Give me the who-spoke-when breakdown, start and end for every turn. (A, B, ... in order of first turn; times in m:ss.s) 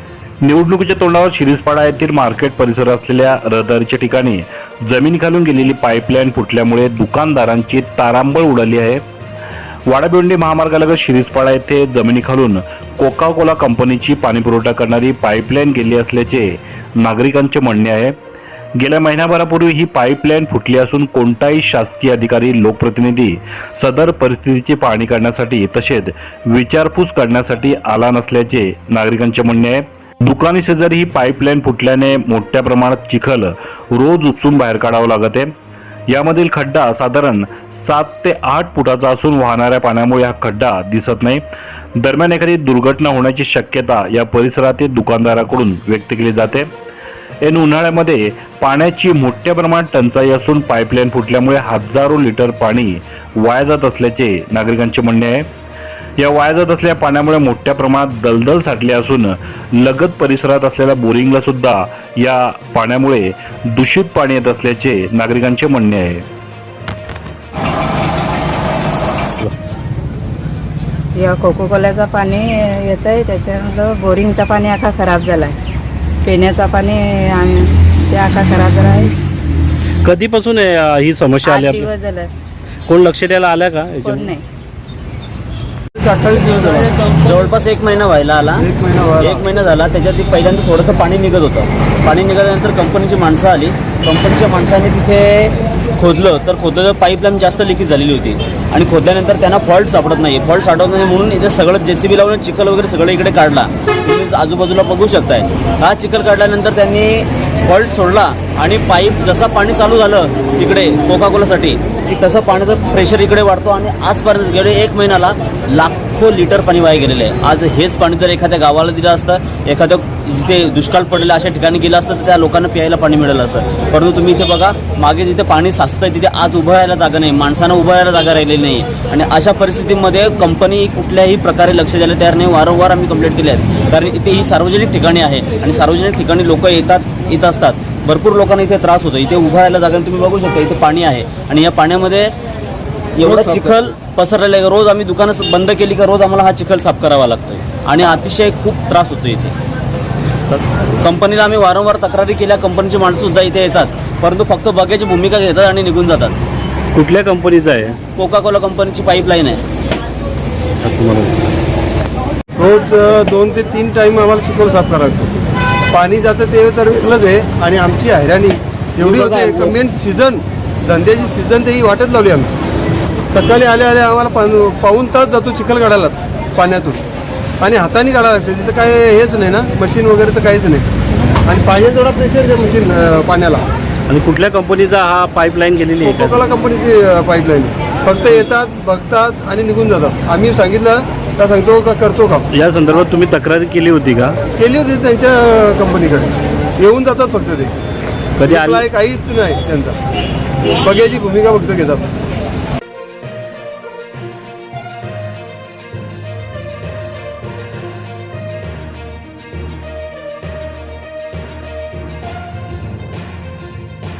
0:00.4-0:09.0 A
0:09.9-0:18.2 A
0:18.8-0:35.5 A
0:36.1-0:41.4 A
0:42.0-0:46.7 A
0:47.4-0:55.5 A
0:56.2-1:06.2 A
1:11.2-1:15.6 B
1:16.2-1:19.1 B
1:20.0-1:21.9 C
1:21.5-1:22.3 B
1:22.9-1:24.3 C
1:24.1-1:24.4 B
1:26.0-1:27.1 D
1:27.2-1:28.6 E
1:28.6-1:29.5 D
1:29.2-2:22.3 E
2:23.2-2:29.5 E
2:23.2-2:23.8 D
2:31.0-2:36.4 E
2:36.9-2:38.0 C
2:38.2-2:39.6 E
2:40.8-2:41.3 C
2:42.6-2:45.3 D
2:45.9-2:52.6 D
2:49.2-2:49.6 C
2:53.3-2:57.0 D
2:57.6-3:00.9 D
3:01.4-3:03.6 D
3:04.1-3:06.4 C
3:06.0-3:12.4 D
3:12.5-3:14.4 C
3:14.6-3:17.7 D
3:18.4-3:18.8 C
3:18.4-3:20.0 D
3:20.7-3:22.0 D